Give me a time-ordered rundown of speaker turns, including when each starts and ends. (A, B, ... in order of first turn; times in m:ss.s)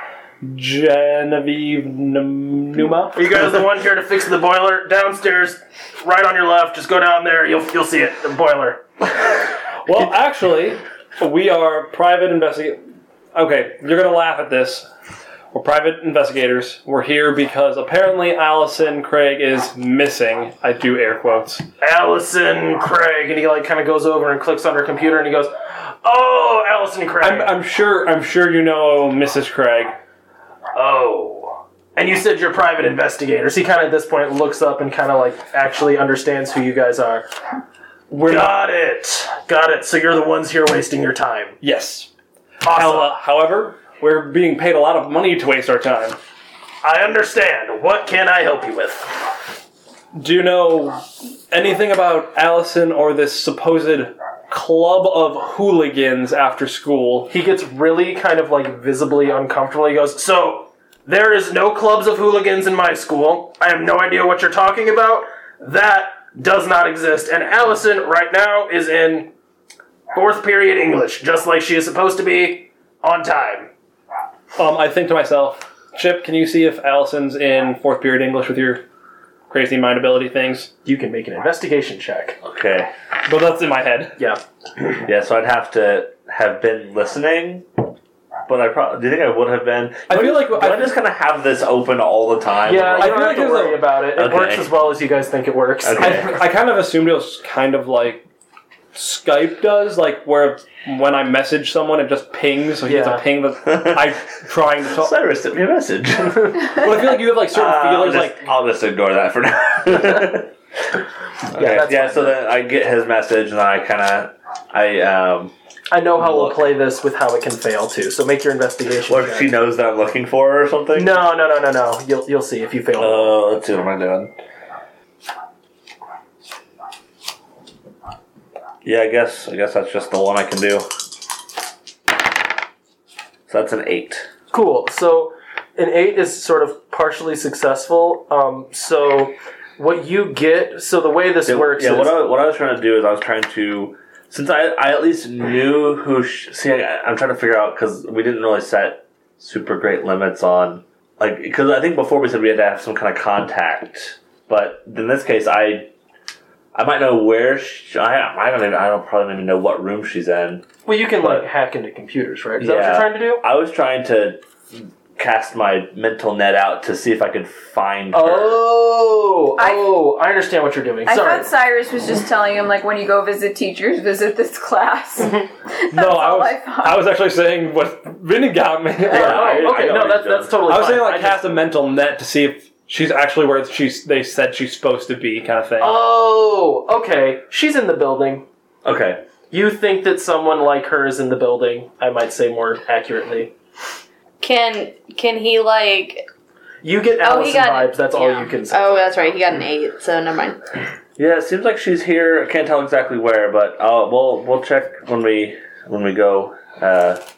0:00.4-0:03.4 A
0:03.1-0:08.8 B
0:09.8-0:12.8 A
0:13.3-0:14.9 A
0:15.5-0:21.7 A
0:21.8-0:25.5 B
0:26.0-0:27.6 B
0:27.2-0:30.0 A
0:30.7-0:37.3 B
0:38.1-0:38.5 A
0:38.1-0:41.6 B
0:41.6-0:42.1 A
0:42.6-0:43.1 B
0:42.6-0:46.2 A
0:46.8-0:49.3 B
0:50.1-0:57.3 A
0:57.3-1:09.3 B
1:10.1-1:13.7 B
1:14.6-1:18.8 A
1:19.5-1:20.7 A
1:20.8-1:22.4 B
1:22.4-1:22.9 C
1:23.3-1:24.2 A
1:24.2-1:25.0 B
1:25.0-1:27.7 C
1:28.5-1:33.3 C
1:30.1-1:30.9 A
1:32.7-1:36.4 B
1:33.0-1:33.8 A
1:34.2-1:34.7 C
1:35.8-1:36.3 C
1:36.0-1:38.2 A
1:38.9-1:45.1 A
1:42.8-1:43.2 B
1:43.6-1:44.3 C
1:44.9-1:46.8 C
1:46.3-1:46.7 B
1:46.7-1:48.4 A
1:47.5-1:50.5 C
1:51.5-1:55.5 C
1:51.6-1:52.4 B
1:55.9-1:59.5 B
1:56.2-1:56.6 C
1:59.1-2:01.2 C
2:01.0-2:03.4 B
2:03.0-2:04.3 C
2:08.8-2:10.9 C
2:13.5-2:14.3 C
2:14.5-2:22.2 B
2:21.4-2:35.9 C
2:36.7-2:41.4 C
2:40.8-2:43.4 B
2:42.6-2:48.6 C
2:48.1-2:51.5 B
2:49.6-2:50.1 D
2:51.0-2:57.0 D
2:55.9-2:59.7 A
2:59.1-3:00.6 C
2:59.1-3:01.6 B
3:00.7-3:06.0 A
3:05.8-3:08.4 B
3:08.8-3:09.2 C
3:09.5-3:13.5 B
3:14.4-3:16.3 E
3:16.8-3:19.1 B
3:17.2-3:20.6 E
3:21.2-3:27.2 C